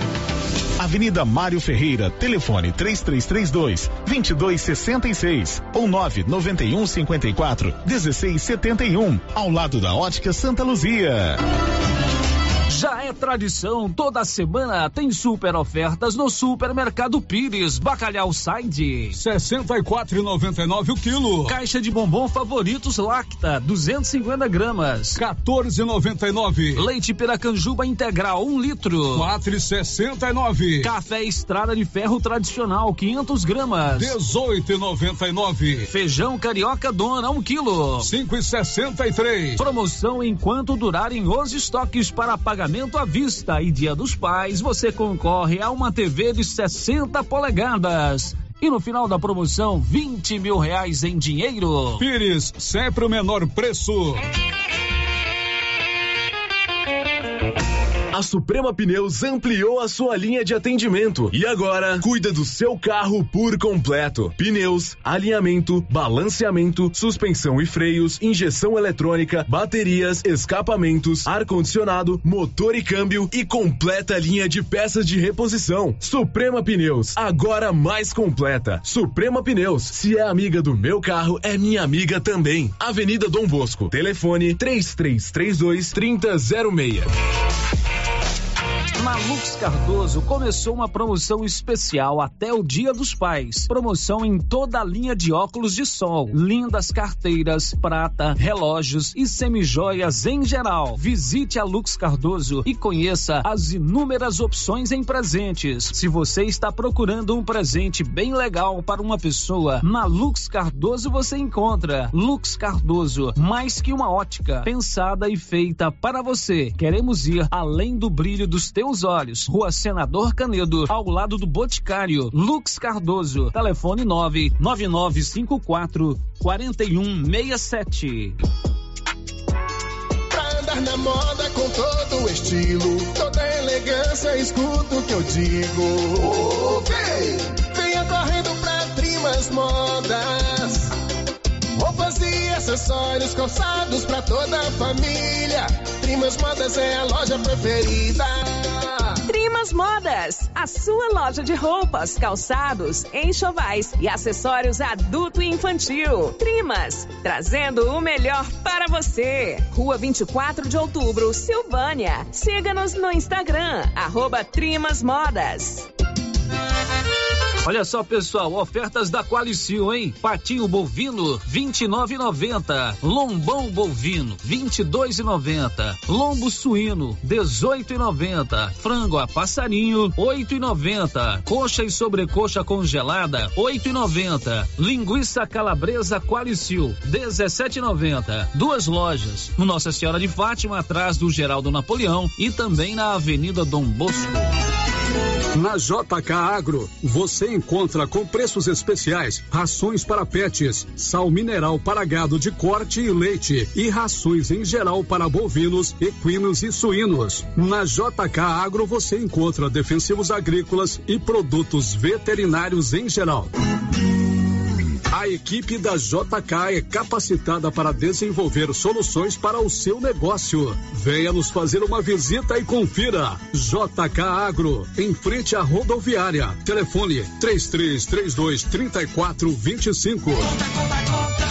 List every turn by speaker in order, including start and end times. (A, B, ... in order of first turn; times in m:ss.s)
0:00.8-0:11.4 A
0:12.7-0:19.2 B
0:19.1-0:21.6 C
0:21.4-0:25.2 B
0:25.1-0:26.9 C
0:26.8-0:29.3 B
0:29.1-0:30.9 C
0:30.8-0:34.2 B
0:33.9-0:35.9 C
0:35.9-0:38.1 B
0:38.0-0:39.6 C
0:39.6-0:52.0 B
0:52.0-0:54.2 C
0:58.1-1:27.1 D
1:28.9-2:08.4 B
2:10.3-2:20.9 E
2:21.8-2:29.2 E
2:29.3-2:30.7 F
2:31.2-2:33.9 F
2:35.7-2:37.7 F
2:39.9-2:40.2 F
2:41.0-2:44.0 F
2:44.6-2:45.7 F
2:47.6-3:14.5 B
3:15.5-3:33.5 C
3:35.1-3:50.5 C